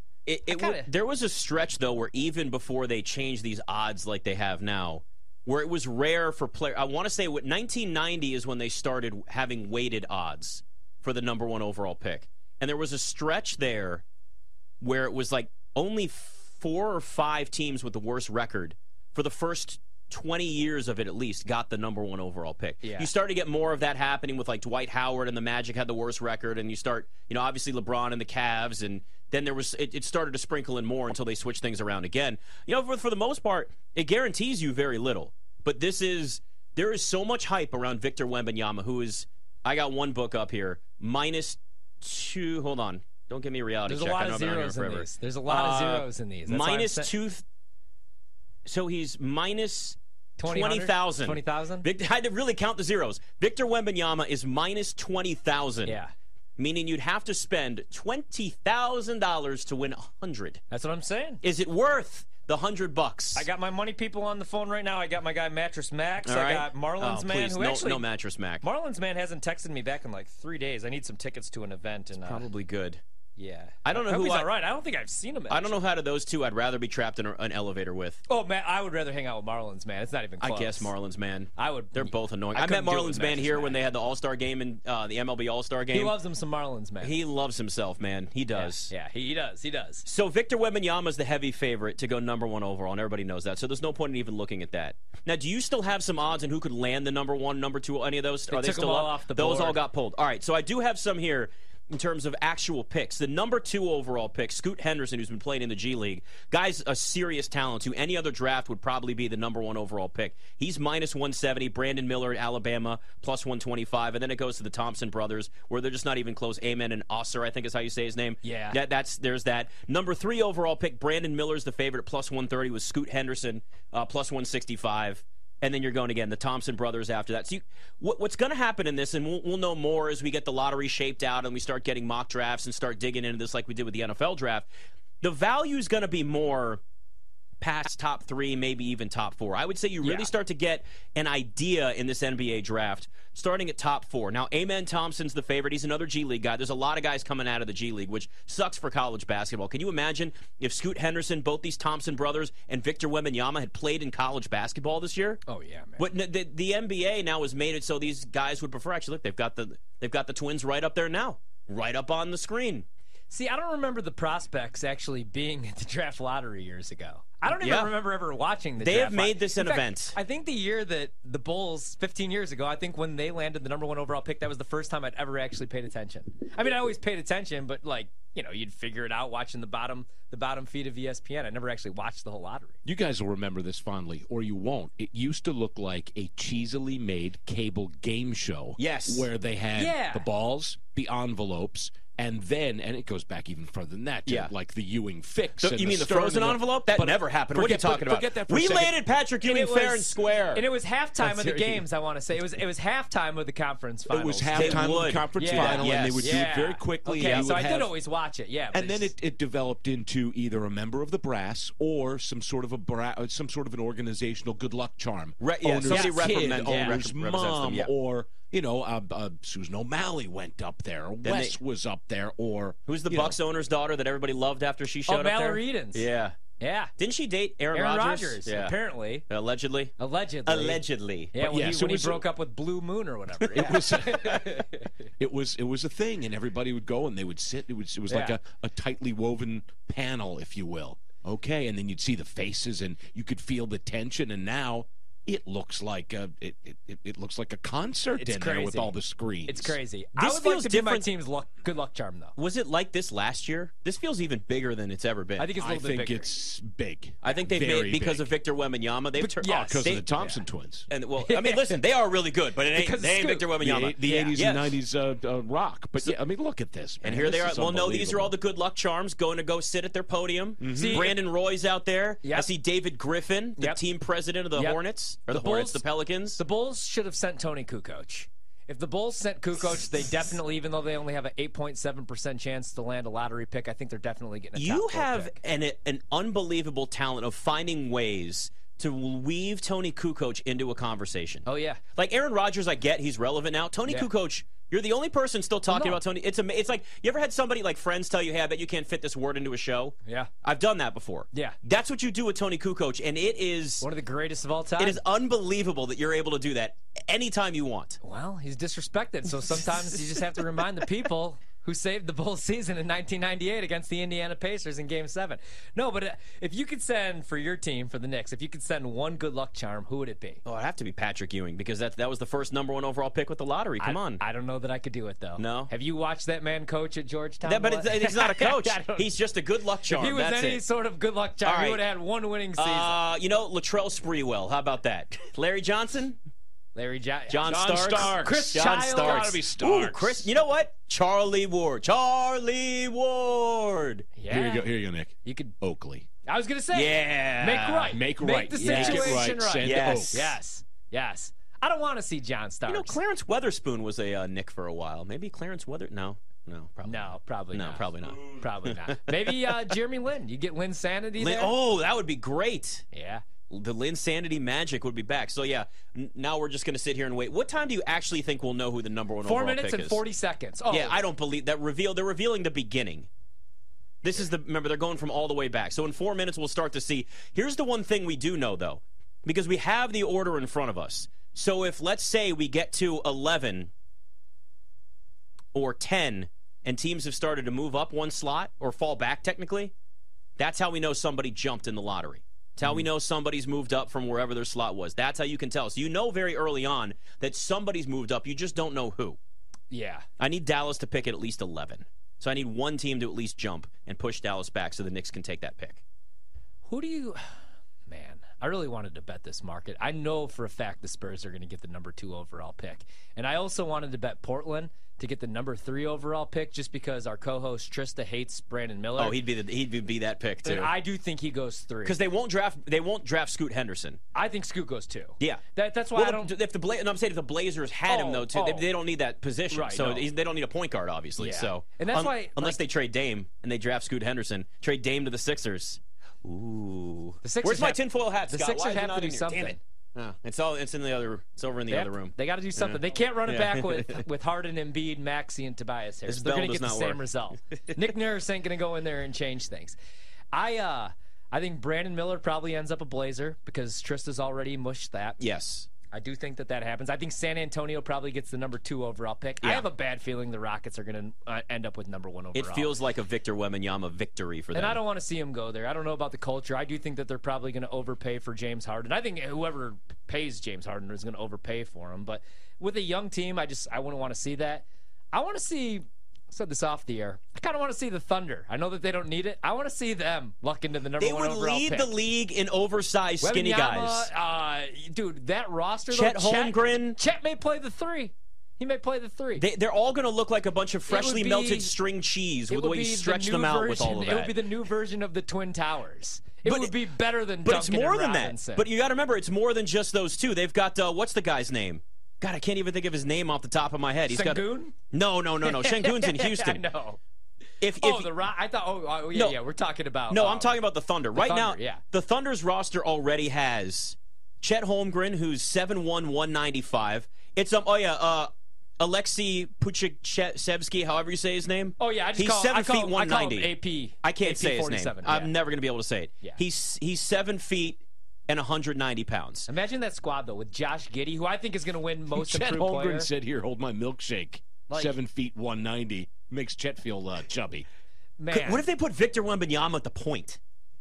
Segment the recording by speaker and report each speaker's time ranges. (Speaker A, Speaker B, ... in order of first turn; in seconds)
Speaker A: 0.2-14.0, 14.8-47.4, 48.6-56.0, 56.6-60.6, 61.4-63.5, 66.2-68.6, 72.1-73.0, 73.8-74.5, 75.5-78.2, 80.4-86.1, 87.0-88.9, 90.0-134.7, 135.2-136.8, 137.6-155.4, 156.0-162.8, 167.5-167.9, 168.8-170.2, 188.8-189.3, 194.2-194.5, 195.6-200.6, 204.5-206.4, 207.2-207.5, 215.4-217.9, 221.2-221.6, 222.8-226.4, 227.0-228.7, 229.3-229.9, 230.4-231.3, 233.5-234.3, 250.2-251.1, 252.4-255.5, 257.2-260.1, 260.9-264.8, 267.0-276.4, 284.6-291.4, 291.9-303.9, 304.8-308.0, 320.4-324.2, 325.4-325.7, 327.4-330.6, 331.4-331.8, 332.6-336.2, 337.3-344.1, 346.7-348.0, 348.6-350.2, 352.7-359.3, 361.2-362.8, 363.5-370.0, 370.7-373.1, 374.0-383.7, 385.5-389.7, 390.4-399.2, 400.2-405.8, 419.0-420.7, 421.8-424.0, 425.9-444.0, 446.1-447.0, 455.2-455.7, 459.4-459.7, 462.3-464.8, 481.0-484.1, 485.9-487.0, 489.4-494.3, 496.4-496.8, 497.4-506.6, 507.6-508.1, 509.1-509.4, 510.1-523.5, 524.0-529.5, 538.3-540.4
Speaker B: 0.5-0.9, 22.8-23.1, 43.9-47.1, 50.4-51.9, 55.8-56.1, 60.7-61.4, 63.4-68.1, 68.6-72.5, 73.4-75.8, 78.3-80.9, 81.6-83.8, 85.9-87.2, 88.5-90.0, 98.5-99.8, 118.4-118.8, 140.0-140.3, 155.5-156.1, 163.3-182.8, 189.7-190.3, 199.4-209.1, 215.8-217.0, 225.1-226.1, 226.6-226.9, 227.7-229.2, 230.0-234.9, 238.1-238.4, 248.1-252.3, 255.4-256.3, 259.2-260.4, 261.2-261.8, 262.6-264.4, 270.7-271.2, 272.2-272.5, 274.5-275.8, 276.4-285.3, 291.4-291.8, 295.7-296.0, 301.3-301.6, 303.8-305.0, 308.0-320.4, 323.8-329.1, 329.9-333.0, 336.7-339.4, 344.2-344.7, 345.2-345.5, 346.2-353.0, 356.8-361.5, 362.9-363.2, 369.2-371.0, 399.7-400.0, 406.6-407.2, 407.9-419.2, 420.4-422.0, 424.1-426.3, 427.9-428.7, 429.5-430.1, 431.2-432.6, 437.2-439.6, 441.7-449.8, 450.3-455.2, 455.9-462.8, 464.5-481.9, 483.2-489.4, 490.9-491.7, 492.5-498.7, 504.1-504.7, 505.4-507.0, 507.7-510.6, 511.1-511.8, 521.8-525.3, 529.5-533.1, 534.7-535.0, 538.2-538.6
Speaker C: 182.8-198.9, 201.2-201.8, 204.1-207.9, 208.7-223.4, 231.4-232.2, 233.5-234.6, 235.2-249.8, 255.6-258.3, 259.6-260.9, 263.6-268.3, 270.6-271.1, 337.4-340.3, 344.3-346.1, 347.9-350.4, 532.1-537.6